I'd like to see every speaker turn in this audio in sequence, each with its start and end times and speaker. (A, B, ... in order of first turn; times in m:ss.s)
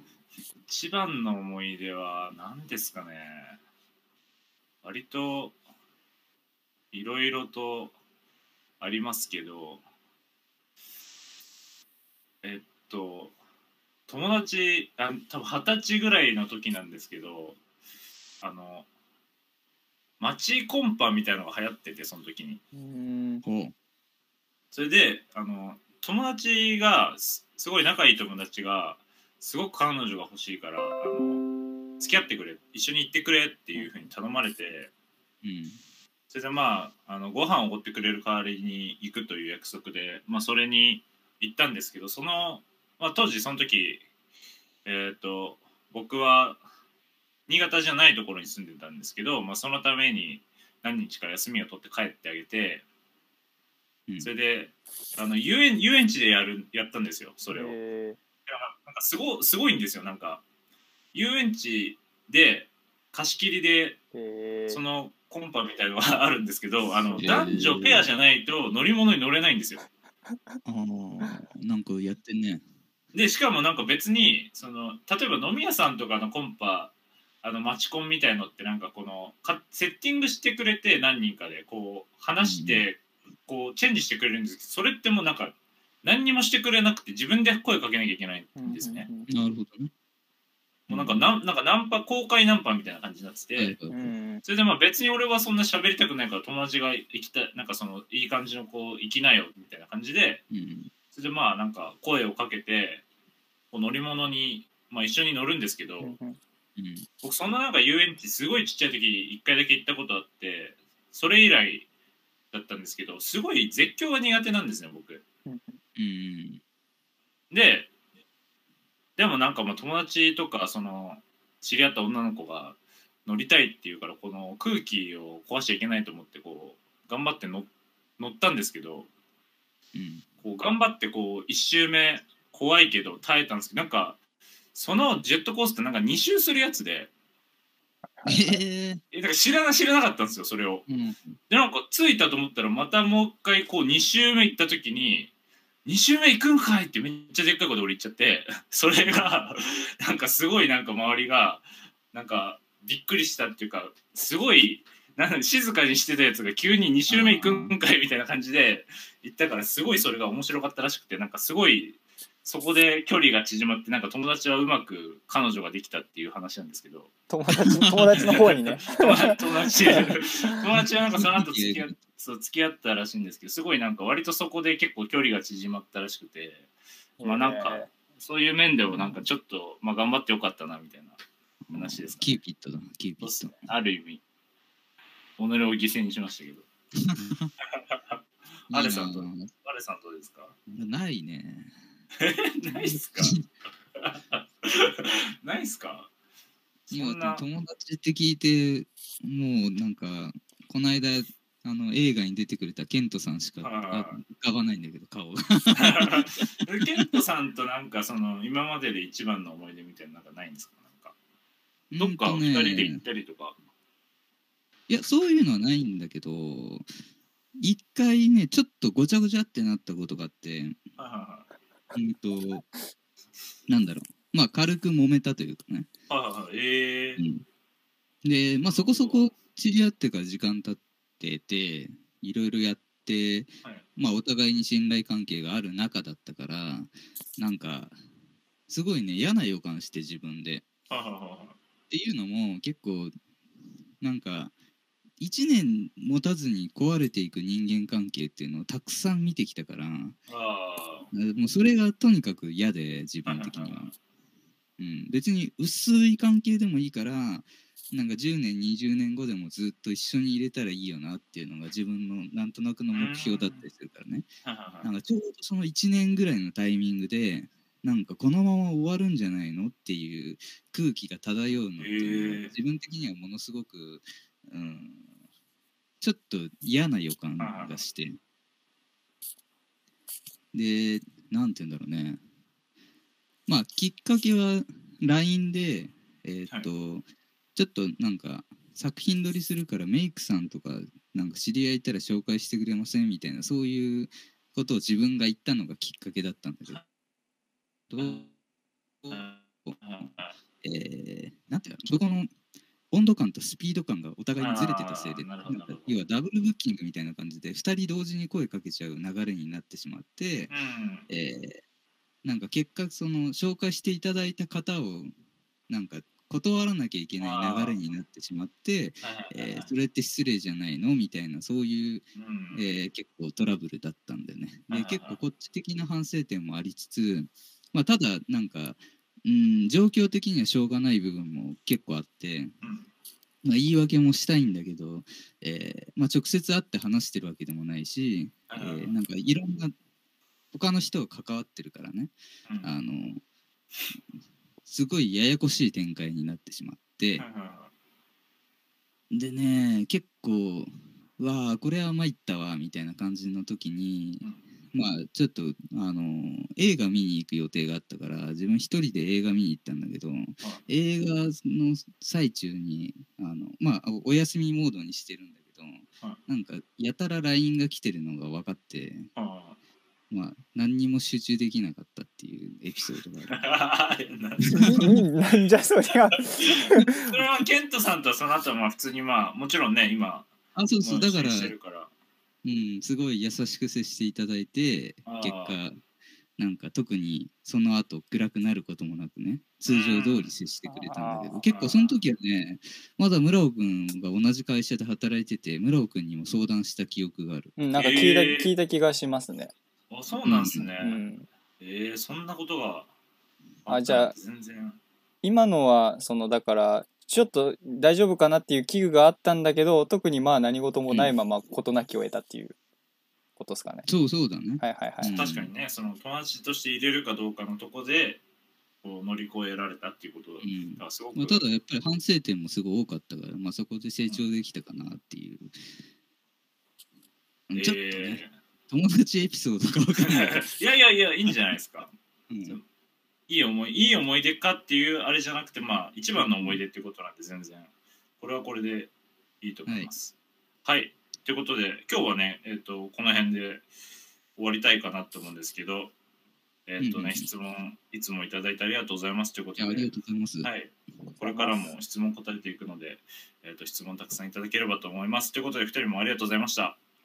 0:00.7-0:03.6 A
0:04.8-0:05.6 A
0:06.9-0:07.9 A
0:08.8-0:09.8 A
0:12.4-0:13.3 A
0:14.1-0:17.6 A
0:18.4-0:18.9 A
0:20.2-0:22.6 A
0:22.7-0:23.4 B
0:23.4-0:23.7 C
0:24.7-0:31.4 A
0:32.0-0:34.9 A
0:33.8-0:34.1 B
0:35.4-0:35.8 C
0:36.3-0:44.0 A
0:44.8-0:46.6 A
0:47.5-0:52.8 A
0:54.2-0:57.8 A
0:57.5-0:58.2 B
0:58.5-1:00.4 A
1:01.1-1:04.0 A
1:04.1-1:04.8 B
1:04.7-1:09.8 A
1:07.0-1:07.4 B
1:07.2-1:08.1 C
1:10.7-1:12.6 C
1:13.1-1:16.9 A
1:17.4-1:29.1 A
1:22.4-1:22.8 C
1:28.6-1:29.3 B
1:29.3-1:29.9 C
1:30.9-1:33.8 A
1:30.9-1:31.3 C
1:33.6-1:34.1 C
1:33.9-1:34.4 B
1:34.4-1:40.4 A
1:40.5-1:40.9 C
1:41.1-1:43.0 A
1:43.7-1:46.2 A
1:46.0-1:46.4 B
1:46.8-1:47.1 C
1:47.2-1:51.9 A
1:52.5-1:55.2 A
1:55.5-1:55.8 B
1:56.0-1:56.6 C
1:57.5-1:57.9 A
1:59.2-2:09.1 A
2:10.0-2:10.2 C
2:10.4-2:14.2 A
2:14.7-2:17.1 A
2:18.0-2:18.6 B
2:18.2-2:19.0 C
2:19.1-2:20.9 A
2:20.9-2:21.4 C
2:21.5-2:25.3 A
2:25.8-2:47.1 A
2:29.0-2:29.3 C
2:37.1-2:37.7 C
2:47.3-2:50.0 B
2:48.1-2:56.7 A
2:51.2-2:52.0 C
2:57.2-2:57.9 B
2:57.2-3:01.2 A
2:58.9-2:59.2 C
3:01.7-3:03.7 C
3:01.7-3:02.4 A
3:03.2-3:04.2 A
3:05.4-3:06.6 A
3:07.0-3:07.5 C
3:07.9-3:10.6 A
3:08.7-3:09.5 C
3:10.7-3:11.7 C
3:12.2-3:13.4 A
3:12.7-3:13.4 C
3:14.0-3:16.1 A
3:16.9-3:17.5 A
3:16.9-3:26.2 C
3:23.6-3:24.2 A
3:25.8-3:31.2 A
3:31.9-3:33.0 C
3:32.0-3:33.6 A
3:34.9-3:36.9 C
3:37.6-3:40.8 C
3:41.0-3:41.4 A
3:41.9-3:42.6 C
3:43.7-3:45.9 C
3:46.1-3:47.2 A
3:47.2-3:47.4 C
3:48.2-3:58.0 C
3:48.6-3:49.3 A
3:58.7-4:00.6 C
4:00.9-4:01.6 A
4:01.9-4:03.1 C
4:04.0-4:04.5 C
4:05.2-4:10.2 C
4:10.3-4:11.1 A
4:11.1-4:13.9 C
4:13.3-4:13.9 A
4:14.8-4:24.3 C
4:22.9-4:23.7 A
4:24.4-4:24.9 A
4:24.8-4:35.1 C
4:31.8-4:32.5 A
4:36.0-4:38.2 C
4:37.4-4:37.8 A
4:40.5-4:42.2 C
4:43.5-4:56.8 C
4:57.9-4:58.3 C
4:58.0-4:58.2 A
4:59.0-4:59.8 C
4:59.1-5:00.3 A
5:00.6-5:02.3 C
5:02.9-5:10.5 C
5:04.4-5:06.0 A
5:10.5-5:11.1 A
5:11.1-5:11.6 C
5:12.2-5:15.1 C
5:15.7-5:32.6 C
5:17.2-5:17.8 A
5:19.0-5:19.7 A
5:22.2-5:22.7 A
5:24.7-5:25.2 A
5:32.6-5:32.9 A
5:33.4-5:39.7 C
5:38.5-5:39.0 A
5:40.5-5:43.2 C
5:42.5-5:42.7 A
5:44.6-5:47.2 C
5:47.2-5:47.7 A
5:49.1-6:09.1 C
6:09.2-6:09.6 A
6:10.1-6:13.4 C
6:13.3-6:14.8 A
6:14.6-6:16.9 B
6:16.2-6:21.9 A
6:20.6-6:21.6 C
6:22.4-6:25.8 C
6:25.0-6:25.6 A
6:26.4-6:37.6 C
6:29.7-6:30.3 A
6:30.7-6:31.4 B
6:31.5-6:32.0 A
6:37.6-6:39.5 B
6:37.7-6:38.5 A
6:39.9-6:41.0 A
6:40.2-6:40.7 C
6:40.8-6:41.3 B
6:41.6-6:42.9 A
6:43.6-6:44.8 A
6:43.7-6:44.2 B
6:45.2-6:52.6 B
6:50.9-6:51.2 C
6:53.4-6:53.9 B
6:53.9-6:55.5 C
6:54.6-6:55.2 B
6:55.2-6:58.2 A
6:58.8-7:01.4 A
7:00.4-7:05.5 C
7:07.5-7:10.4 C
7:07.6-7:08.3 A
7:10.0-7:11.9 A
7:12.3-7:12.6 C
7:13.3-7:20.1 A
7:16.2-7:16.6 C
7:19.7-7:19.9 C
7:20.6-7:23.6 A
7:24.4-7:25.9 A
7:26.7-7:29.9 A
7:26.8-7:27.3 C
7:29.6-7:30.5 C
7:30.4-7:36.8 A
7:31.2-7:31.7 B